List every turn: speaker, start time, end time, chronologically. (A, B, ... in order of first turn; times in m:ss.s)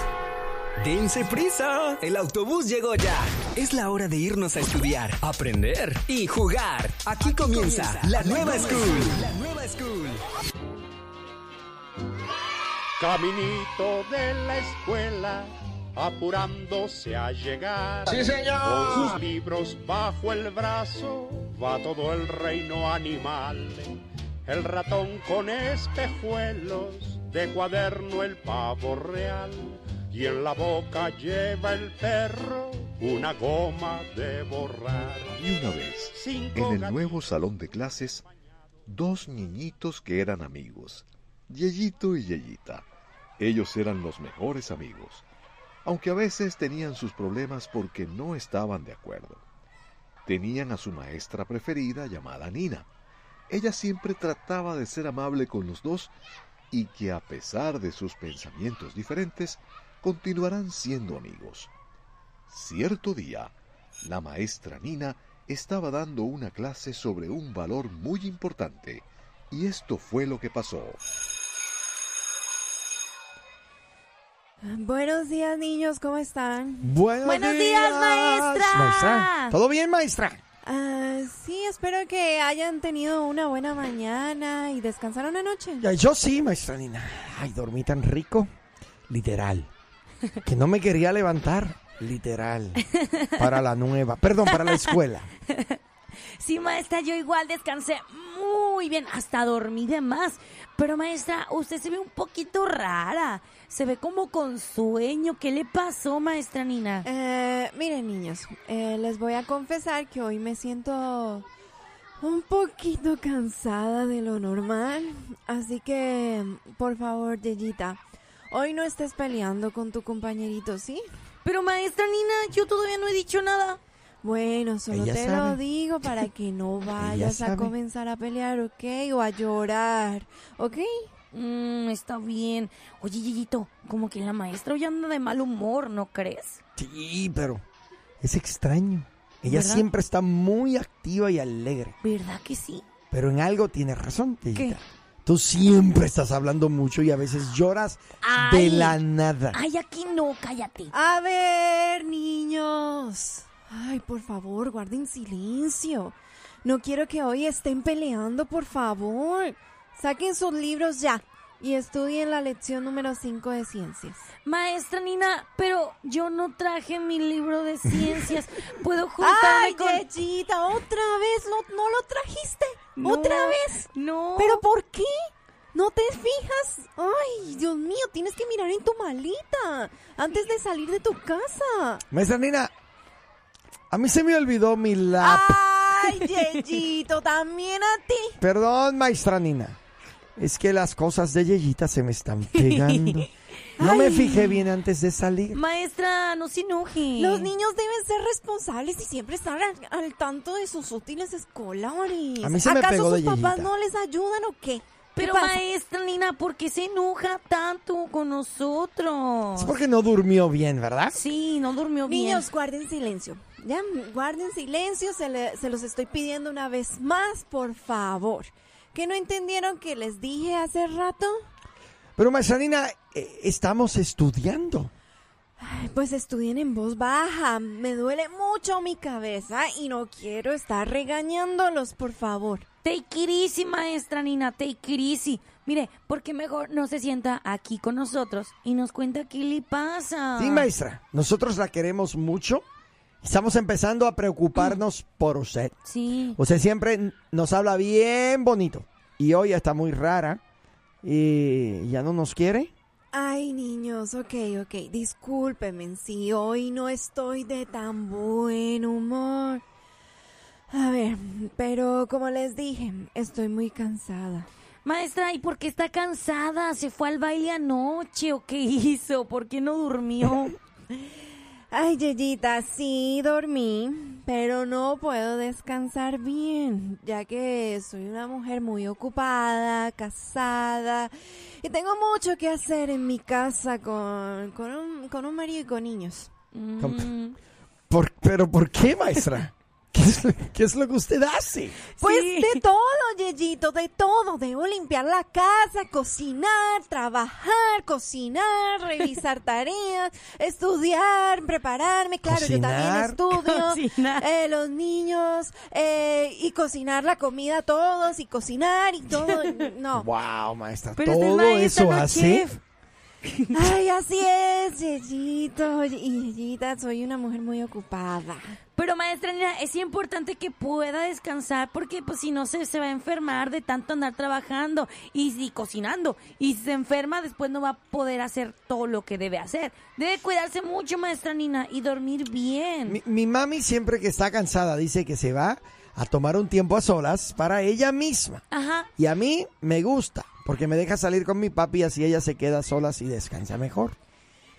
0:00.8-0:10.2 A
0:13.0-0:35.4 B
0:35.4-0:38.2 C
0:36.1-0:37.4 B
0:38.9-0:42.9 C
0:43.4-0:45.3 C
0:45.8-0:49.4 C
0:50.2-0:52.9 C
0:53.5-0:56.1 C
0:56.7-1:01.7 C
1:02.5-1:11.0 C
1:14.6-1:16.9 D
1:16.8-1:20.4 E
1:17.2-1:19.5 F
1:20.6-1:25.9 D
1:25.8-1:28.5 E
1:29.1-1:29.7 E
1:30.4-1:32.8 E
1:32.9-1:33.4 F
1:33.4-1:35.3 E
1:34.4-1:34.9 F
1:35.5-1:35.8 F
1:36.4-1:47.1 F
1:47.0-1:51.4 D
1:52.2-1:58.0 D
1:58.5-2:01.0 D
2:01.4-2:03.8 F
2:04.2-2:11.1 D
2:04.9-2:05.6 E
2:07.0-2:07.7 E
2:11.3-2:16.6 F
2:16.8-2:17.6 E
2:18.2-2:21.9 E
2:19.4-2:19.8 F
2:22.0-2:22.8 F
2:23.1-2:29.6 E
2:28.2-2:29.0 F
2:29.5-2:30.9 F
2:30.9-2:44.3 D
2:44.4-2:50.0 F
2:49.2-2:55.1 D
2:53.0-2:54.6 F
2:55.7-3:02.0 D
3:02.1-3:02.7 E
3:03.9-3:05.6 E
3:05.2-3:08.4 D
3:08.4-3:09.8 E
3:10.4-3:15.6 E
3:12.5-3:13.2 F
3:13.8-3:14.6 D
3:15.5-3:17.5 F
3:17.2-3:25.6 D
3:22.4-3:23.7 E
3:25.2-3:29.7 F
3:29.6-3:31.2 E
3:31.1-3:32.4 F
3:32.0-3:41.4 D
3:42.2-3:44.9 E
3:45.6-3:52.6 D
3:52.8-4:00.7 F
4:00.4-4:02.6 E
4:03.2-4:05.7 E
4:05.8-4:06.4 F
4:06.4-4:10.4 E
4:11.0-4:12.7 E
4:13.1-4:19.6 D
4:20.7-4:24.5 D
4:24.8-4:30.5 F
4:31.7-4:41.1 D
4:41.6-4:46.3 D
4:46.5-4:47.4 F
4:46.8-4:47.1 E
4:47.9-4:51.8 E
4:52.0-4:52.6 F
4:52.0-5:10.1 D
5:02.2-5:03.2 E
5:03.3-5:04.2 F
5:09.9-5:12.5 E
5:11.0-5:12.6 F
5:13.5-5:18.6 D
5:18.8-5:33.0 F
5:32.9-5:38.4 E
5:38.5-5:38.9 F
5:39.0-5:44.0 E